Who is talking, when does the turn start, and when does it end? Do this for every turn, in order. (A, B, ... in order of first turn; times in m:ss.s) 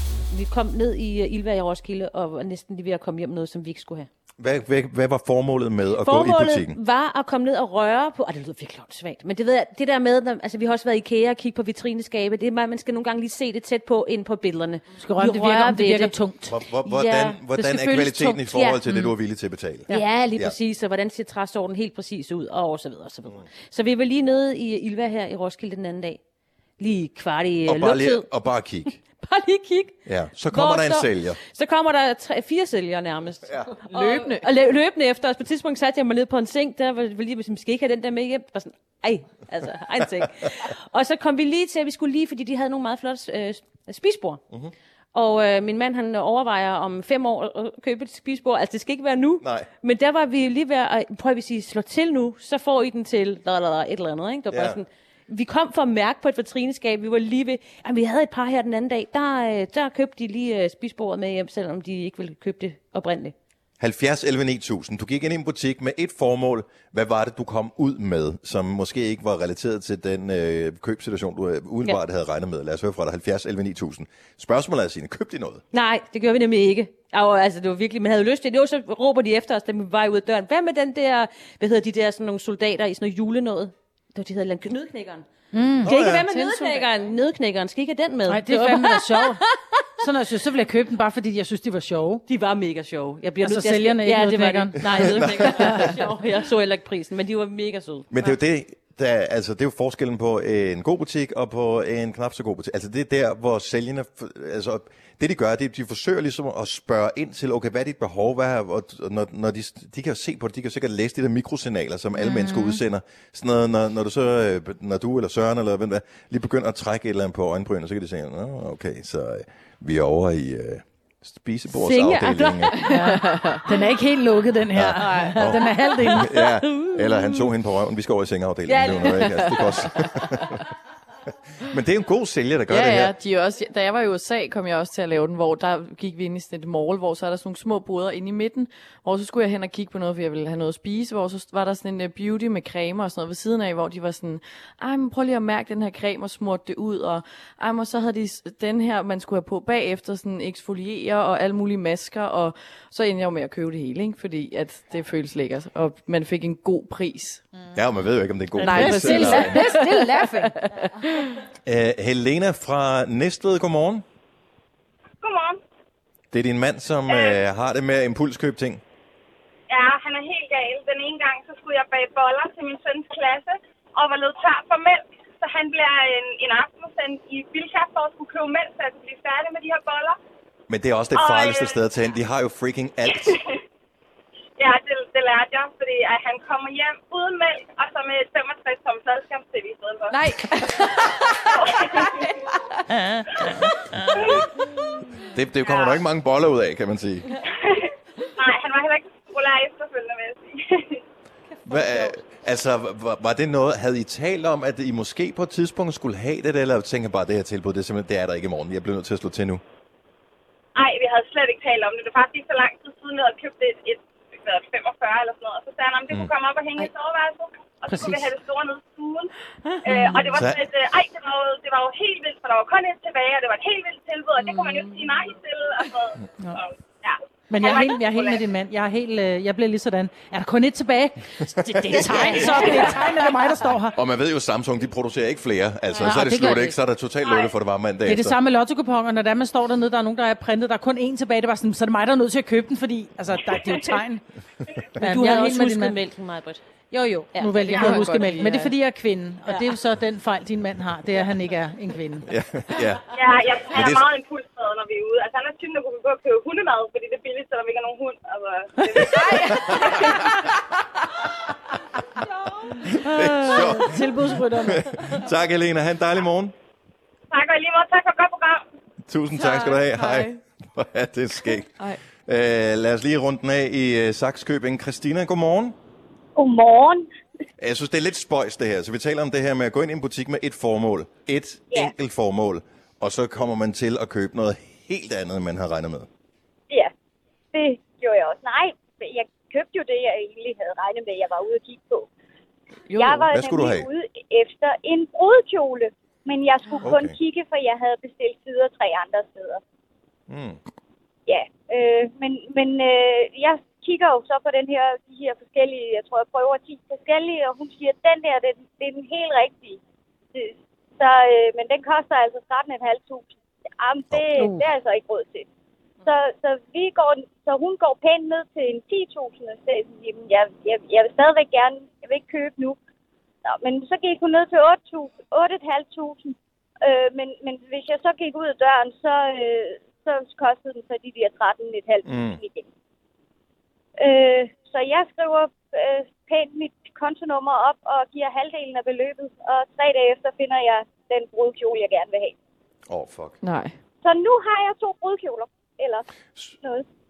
0:00.3-0:04.1 A
0:04.4-0:06.8 B
0:06.0-0:16.2 A
0:15.0-0:16.5 C
0:16.4-0:20.6 B
0:16.7-0:18.8 A
0:17.7-0:18.1 C
0:19.9-0:26.2 A
0:26.8-0:28.3 A
0:27.6-0:29.0 B
0:29.2-0:29.9 A
0:30.0-0:31.4 B
0:30.5-0:44.4 A
0:33.9-0:34.4 D
0:45.1-1:03.3 A
0:49.4-0:49.7 B
0:54.5-0:54.8 B
1:03.8-1:15.6 B
1:15.7-1:25.2 A
1:25.5-1:25.9 C
1:25.8-1:29.6 A
1:25.8-1:26.2 B
1:26.3-1:26.9 D
1:28.3-1:29.4 C
1:30.0-1:32.2 C
1:32.3-1:38.1 A
1:33.4-1:35.1 C
1:34.9-1:35.5 B
1:38.1-2:02.9 B
1:52.2-1:52.8 C
2:01.7-2:03.4 A
2:03.1-2:03.6 D
2:03.7-2:06.2 C
2:04.7-2:10.6 B
2:04.9-2:07.4 A
2:08.7-2:09.8 A
2:08.9-2:09.8 D
2:11.7-2:13.1 B
2:12.7-2:37.4 D
2:37.7-2:39.8 B
2:38.6-2:41.3 D
2:38.6-2:40.6 C
2:41.6-2:44.0 B
2:45.2-2:45.6 E
2:46.3-2:48.8 B
2:47.1-2:47.4 E
2:49.7-3:00.2 E
3:00.7-3:03.4 B
3:01.2-3:01.8 E
3:03.2-3:03.6 E
3:04.6-3:10.2 E
3:10.1-3:12.8 D
3:11.6-3:12.2 E
3:13.0-3:13.5 C
3:14.2-3:14.5 E
3:15.3-3:17.4 B
3:15.6-3:16.0 E
3:17.4-3:21.0 E
3:21.6-3:29.6 B
3:30.8-3:39.3 E
3:37.9-3:38.3 C
3:39.8-3:48.5 E
3:39.9-3:40.3 C
3:47.5-3:53.9 C
3:51.4-3:53.0 B
3:53.9-3:58.3 B
3:55.9-3:56.8 C
3:57.2-3:57.5 E
3:58.0-4:04.2 C
4:05.0-4:06.0 C
4:05.0-4:06.6 A
4:06.9-4:12.3 C
4:07.5-4:08.7 D
4:09.4-4:09.7 A
4:12.3-4:13.1 B
4:13.1-4:20.1 E
4:13.7-4:14.0 B
4:18.9-4:20.2 C
4:22.9-4:25.2 C
4:22.9-4:26.5 B
4:27.3-4:28.6 E
4:29.1-4:35.7 B
4:29.3-4:30.4 D
4:31.5-4:32.0 D
4:36.4-4:37.1 F
4:37.6-4:46.1 B
4:47.5-4:52.1 F
4:52.9-4:53.2 D
4:53.0-4:59.6 F
4:53.3-4:53.9 B
4:56.8-4:57.2 B
5:00.3-5:00.6 B
5:01.3-5:09.8 F
5:10.3-5:15.5 F
5:16.0-5:22.8 F
5:23.4-5:32.7 F
5:32.0-5:32.4 B
5:34.0-5:42.3 F
5:42.9-5:43.4 B
5:43.4-5:43.7 D
5:44.0-5:46.0 F